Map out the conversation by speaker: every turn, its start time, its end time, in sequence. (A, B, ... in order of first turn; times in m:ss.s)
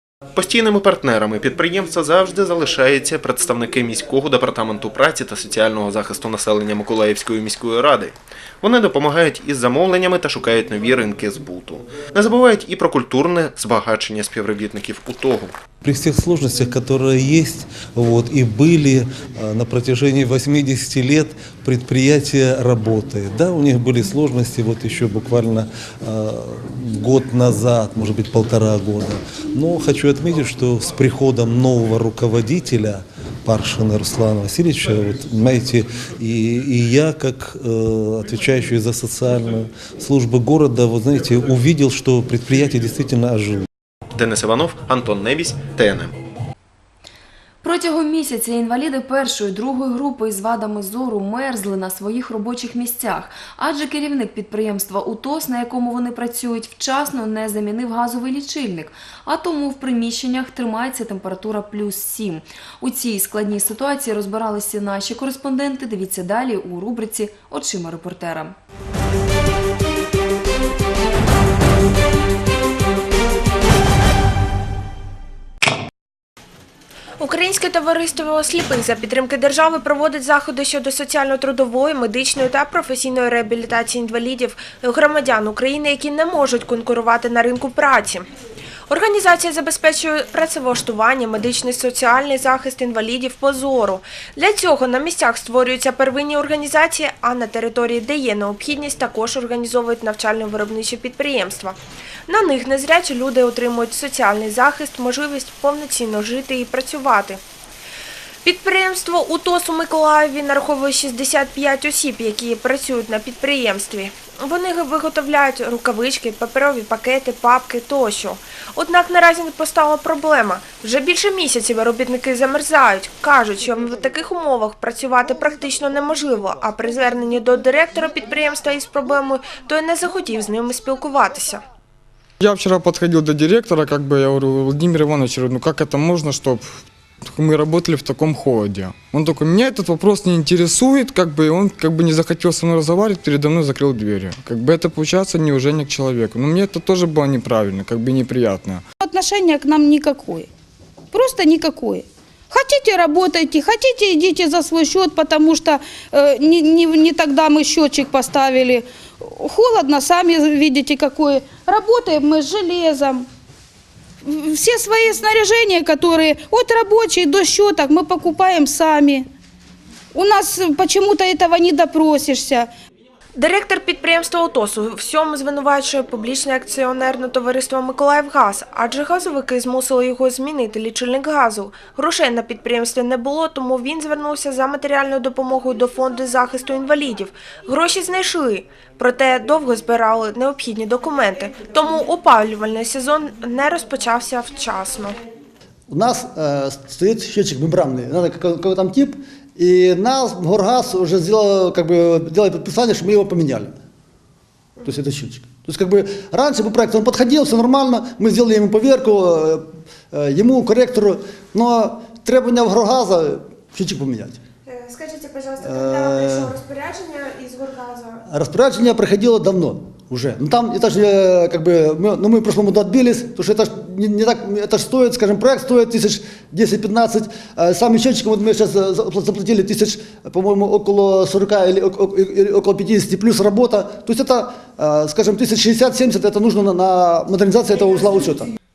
0:00.4-0:15.5 A
0:15.8-0:43.6 B
0:44.1-0:46.1 A
0:47.6-1:08.5 C
1:17.2-1:28.3 D
1:28.9-1:47.4 D
1:48.4-2:11.6 D
2:12.4-2:28.8 E
2:29.0-2:30.5 F
2:31.1-2:43.3 F
2:44.2-2:49.3 F
2:50.1-2:52.7 F
2:53.4-3:15.2 D
3:15.9-3:23.7 G
3:24.8-3:34.4 G
3:34.6-3:38.2 D
3:35.6-3:36.5 G
3:38.2-3:58.5 G